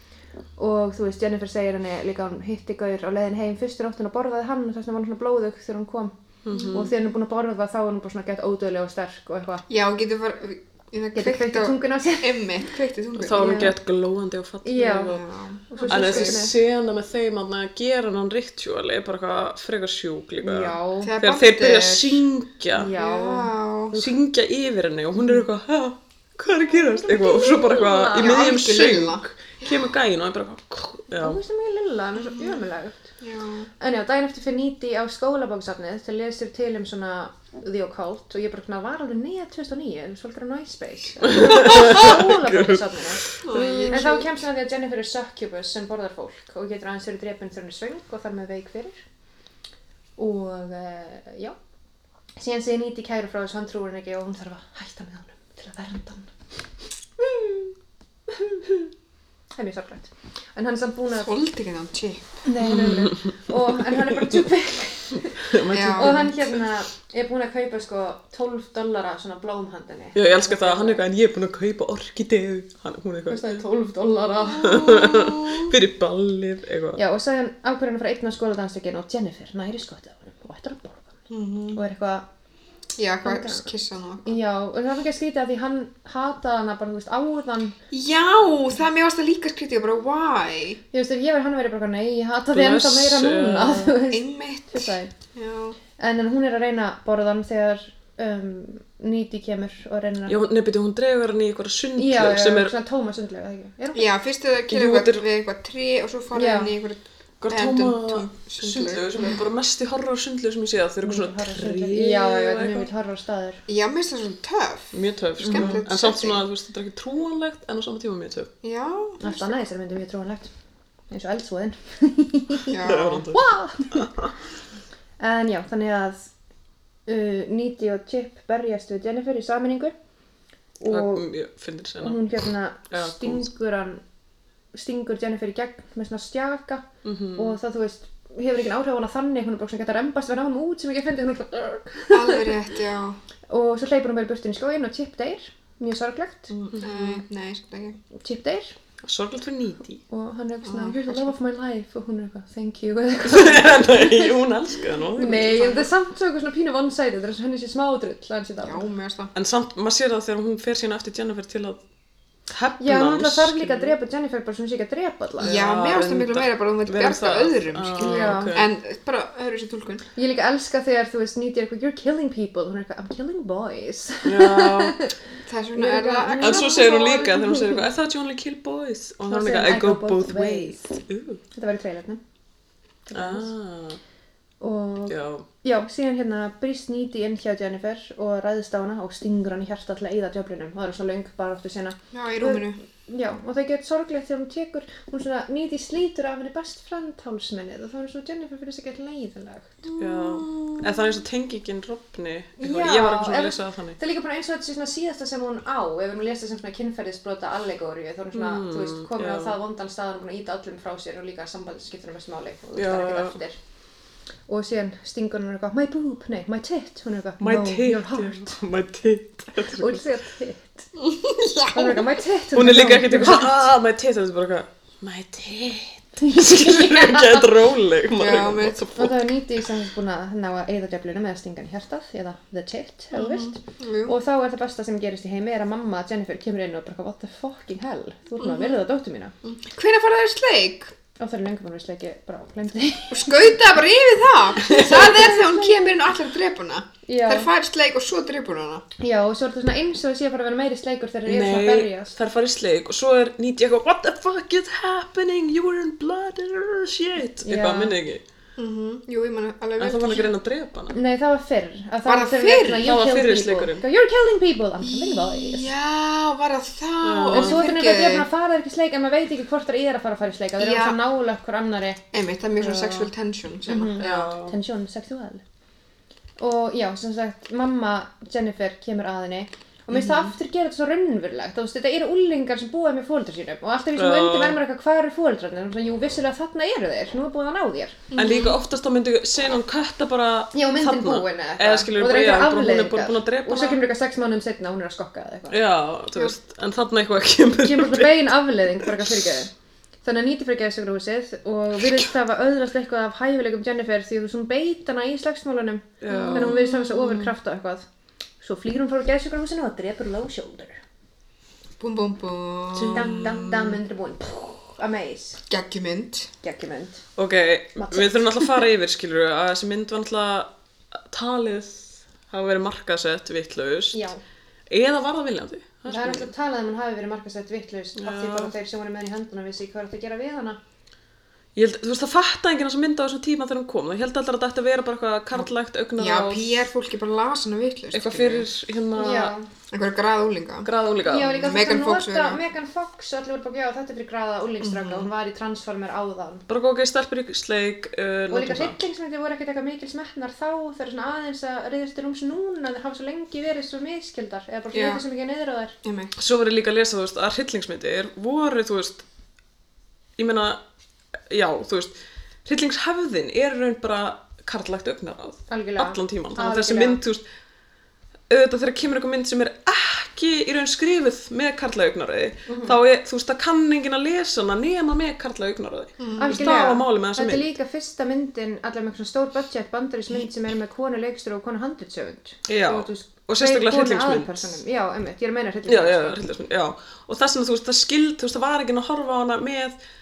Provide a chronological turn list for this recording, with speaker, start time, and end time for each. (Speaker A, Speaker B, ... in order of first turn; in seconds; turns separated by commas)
Speaker A: 0.6-6.1, Speaker B: 6.4-6.9, Speaker C: 6.5-6.8, Speaker A: 6.7-9.6, Speaker C: 9.7-13.7, Speaker A: 11.1-12.4, Speaker B: 13.2-15.2, Speaker A: 13.3-13.7, Speaker A: 14.6-15.2, Speaker C: 15.0-16.4, Speaker A: 15.7-16.5, Speaker B: 15.9-22.9, Speaker A: 20.4-21.1, Speaker C: 21.0-22.2, Speaker A: 22.8-23.5, Speaker C: 22.8-23.9, Speaker B: 23.9-31.4, Speaker A: 26.6-28.5, Speaker C: 28.1-29.7, Speaker A: 31.1-33.1, Speaker C: 32.3-32.6, Speaker C: 33.2-33.7, Speaker A: 33.8-49.0, Speaker B: 41.2-43.5, Speaker C: 43.4-44.3, Speaker A: 50.2-51.5, Speaker A: 52.4-56.3, Speaker A: 57.2-57.7, Speaker A: 58.3-58.9, Speaker A: 59.5-61.3, Speaker C: 61.1-62.4, Speaker A: 62.4-71.0, Speaker B: 62.6-63.2, Speaker B: 63.9-64.4, Speaker B: 65.4-66.5, Speaker C: 65.7-66.3, Speaker B: 70.1-73.6, Speaker A: 73.3-75.0, Speaker B: 74.5-77.0, Speaker A: 77.0-81.1, Speaker C: 81.3-81.8, Speaker A: 81.7-82.2, Speaker C: 83.0-84.3, Speaker A: 83.2-83.7, Speaker A: 84.2-87.8, Speaker C: 87.9-90.8, Speaker A: 90.9-95.1, Speaker B: 92.5-94.0, Speaker C: 94.1-95.8, Speaker A: 96.0-100.4, Speaker B: 100.3-102.7, Speaker A: 102.0-104.1, Speaker C: 103.9-109.2, Speaker B: 104.7-105.2, Speaker A: 106.3-106.7, Speaker B: 107.4-112.9, Speaker A: 111.0-113.6, Speaker C: 113.7-116.4, Speaker B: 114.9-118.5, Speaker A: 115.4-115.8, Speaker C: 118.6-119.5, Speaker A: 119.2-120.5, Speaker A: 121.1-122.8, Speaker C: 122.7-123.2, Speaker B: 122.8-124.3, Speaker A: 123.3-124.1, Speaker A: 125.2-126.3, Speaker A: 127.1-129.9, Speaker A: 130.8-131.3, Speaker B: 130.9-132.2, Speaker A: 132.0-134.0, Speaker B: 132.9-133.5, Speaker A: 134.7-142.6, Speaker B: 137.0-137.6, Speaker C: 142.1-143.2, Speaker A: 143.5-146.6, Speaker B: 146.7-147.2, Speaker C: 146.7-148.0, Speaker A: 148.2-148.7, Speaker B: 149.0-150.0, Speaker A: 150.1-154.4, Speaker C: 150.6-151.3, Speaker B: 153.2-155.9, Speaker A: 155.2-158.9, Speaker C: 158.6-159.3, Speaker B: 159.3-161.8, Speaker B: 162.5-163.9, Speaker A: 162.8-165.6, Speaker B: 165.4-168.7, Speaker C: 165.4-170.0, Speaker A: 168.0-168.6, Speaker A: 170.1-175.2, Speaker B: 174.2-175.0, Speaker C: 175.5-177.3, Speaker A: 175.7-177.9, Speaker B: 176.4-181.4, Speaker A: 179.2-180.9, Speaker A: 181.5-182.2, Speaker A: 183.1-183.5, Speaker B: 183.1-184.0, Speaker A: 184.6-199.8, Speaker B: 185.1-185.4, Speaker C: 192.1-192.8, Speaker C: 199.9-200.8, Speaker B: 200.0-204.0, Speaker A: 202.6-213.6, Speaker B: 208.3-209.5, Speaker B: 212.7-213.4, Speaker A: 214.5-218.6, Speaker B: 217.4-220.0, Speaker A: 219.7-220.9, Speaker C: 221.0-222.0, Speaker A: 221.7-223.7, Speaker B: 222.5-229.2, Speaker A: 226.2-227.5, Speaker C: 228.1-228.9, Speaker A: 228.9-239.3, Speaker C: 233.1-234.1, Speaker C: 238.4-238.8, Speaker C: 239.4-240.9, Speaker A: 241.2-243.5, Speaker C: 243.1-248.8, Speaker A: 244.6-245.8, Speaker A: 247.1-247.5, Speaker A: 249.0-252.1, Speaker B: 251.2-258.2, Speaker A: 257.4-257.9, Speaker C: 258.6-260.3, Speaker B: 259.8-261.0, Speaker A: 260.9-265.7, Speaker C: 262.1-262.9, Speaker B: 262.8-263.9, Speaker C: 264.8-268.3, Speaker B: 267.0-267.6, Speaker A: 267.3-272.0, Speaker C: 270.6-271.0, Speaker C: 272.1-274.3, Speaker B: 272.6-273.1, Speaker A: 273.7-275.4, Speaker B: 274.0-274.6, Speaker A: 276.4-288.1, Speaker B: 283.9-284.6, Speaker C: 288.1-288.6, Speaker B: 288.1-293.8, Speaker A: 290.5-295.6, Speaker B: 295.5-299.1, Speaker A: 297.6-299.5, Speaker A: 300.0-307.8, Speaker B: 306.0-306.6, Speaker C: 306.1-307.3, Speaker A: 308.4-310.8, Speaker C: 311.8-313.8, Speaker A: 312.8-315.4, Speaker B: 312.8-313.3, Speaker C: 315.5-316.3, Speaker A: 316.4-317.0, Speaker B: 317.1-324.0, Speaker A: 317.8-318.6, Speaker A: 323.9-324.2, Speaker B: 324.7-326.3, Speaker A: 325.9-330.6, Speaker B: 328.0-328.5, Speaker B: 331.5-336.5, Speaker C: 336.0-338.5, Speaker B: 337.9-339.3, Speaker A: 338.9-339.5, Speaker C: 339.7-340.7, Speaker B: 340.6-341.6, Speaker A: 341.1-346.4, Speaker C: 341.3-342.4, Speaker C: 344.6-345.1, Speaker B: 346.5-348.8, Speaker A: 348.3-355.7, Speaker C: 354.7-355.0, Speaker C: 355.8-356.1, Speaker B: 356.2-359.0, Speaker B: 360.2-360.6, Speaker B: 361.3-361.9, Speaker B: 362.4-367.2, Speaker A: 365.5-367.0, Speaker B: 368.3-377.5, Speaker A: 372.5-372.8, Speaker C: 376.0-376.7, Speaker A: 376.2-386.2, Speaker B: 382.5-384.6, Speaker B: 385.7-389.8